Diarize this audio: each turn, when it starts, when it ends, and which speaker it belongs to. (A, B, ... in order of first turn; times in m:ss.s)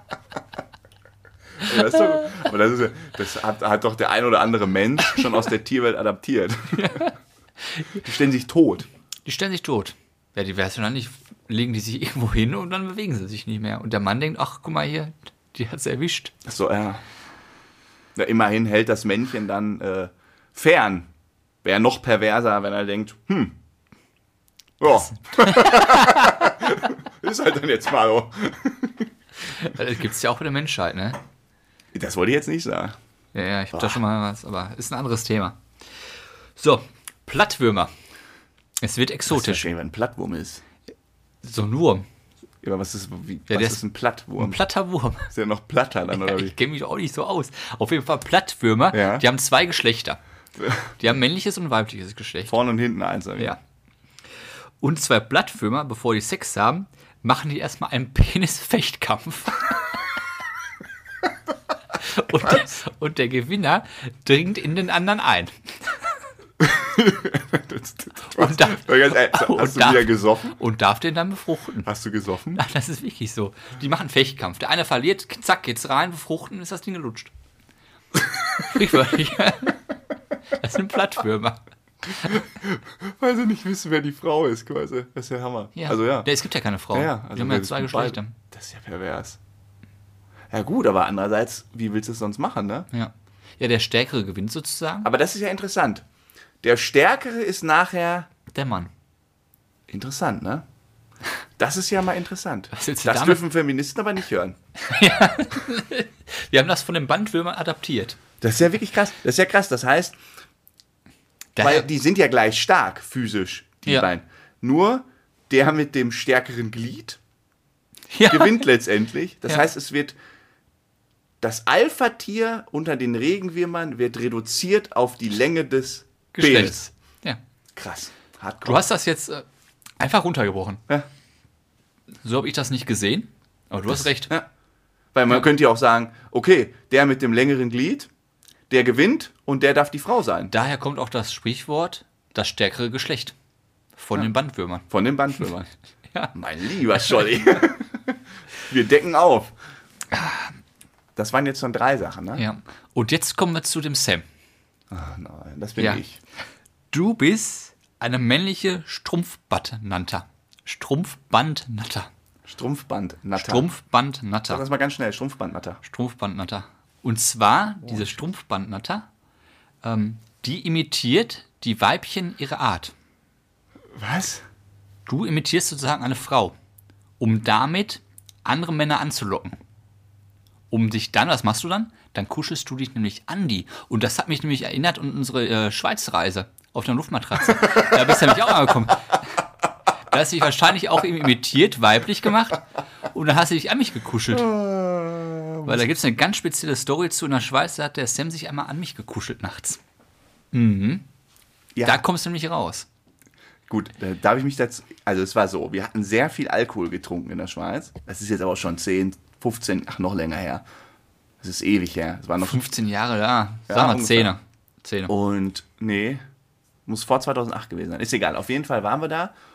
0:01.6-0:07.1 A
0:06.7-0:08.0 B
0:08.0-0:08.9 A
0:09.2-0:16.3 B
0:16.4-0:17.0 A
0:18.1-0:21.1 A
0:21.6-0:23.6 A
0:24.8-0:29.1 A
0:25.3-0:26.4 B
0:29.5-0:31.2 B
0:31.9-0:33.0 A
0:33.3-0:35.6 B
0:33.7-0:34.0 A
0:36.6-0:37.9 B
0:38.8-0:39.6 B
0:39.3-0:40.6 A
0:41.4-0:42.0 B
0:42.6-0:44.6 A
0:43.5-0:43.8 B
0:44.4-0:45.3 B
0:45.3-0:46.5 A
0:46.1-0:50.2 B
0:48.9-0:49.2 A
0:50.6-0:50.9 A
0:51.0-0:52.5 B
0:52.5-0:53.5 A
0:54.8-0:59.9 B
1:02.0-1:06.0 B
1:02.3-1:02.7 A
1:06.6-1:10.6 A
1:08.3-1:11.9 B
1:11.8-1:12.6 A
1:12.5-1:17.3 B
1:18.2-1:19.0 A
1:18.6-1:19.8 B
1:20.5-1:22.4 B
1:22.2-1:26.3 A
1:25.8-1:28.3 B
1:26.9-1:29.4 A
1:30.5-1:32.9 A
1:32.9-1:35.1 B
1:35.0-1:36.0 A
1:36.6-1:38.3 A
1:38.5-1:38.9 B
1:39.9-1:40.6 A
1:41.6-1:44.6 A
1:42.7-1:43.4 B
1:44.8-1:48.2 B
1:48.4-1:50.2 A
1:51.5-1:51.8 B
1:51.6-1:57.2 A
1:58.1-1:58.7 B
1:58.3-2:00.2 A
2:01.4-2:06.8 A
2:06.3-2:07.4 B
2:07.7-2:08.8 A
2:08.6-2:09.4 B
2:10.0-2:10.8 B
2:12.2-2:14.3 B
2:13.9-2:14.5 A
2:15.1-2:18.1 A
2:18.7-2:20.5 A
2:20.5-2:23.3 B
2:24.0-2:25.4 B
2:24.9-2:25.7 A
2:26.3-2:29.5 A
2:30.1-2:30.6 B
2:31.2-2:32.4 A
2:32.4-2:34.2 B
2:34.9-2:36.2 A
2:36.9-2:42.1 B
2:42.5-2:43.7 A
2:43.4-2:44.6 B
2:44.5-2:45.8 A
2:45.8-2:49.1 B
2:47.8-2:48.3 A
2:49.8-2:52.9 B
2:53.9-2:54.4 A
2:55.1-2:56.6 B
2:57.2-2:59.6 B
3:00.7-3:09.2 B
3:07.5-3:08.4 A
3:10.1-3:14.5 B
3:14.3-3:15.8 A
3:15.6-3:19.8 B
3:20.5-3:21.0 B
3:21.7-3:22.0 A
3:21.8-3:22.8 B
3:23.7-3:30.6 A
3:31.4-3:32.7 A
3:32.4-3:35.1 B
3:33.7-3:34.3 A
3:35.1-3:36.2 A
3:36.8-3:39.3 A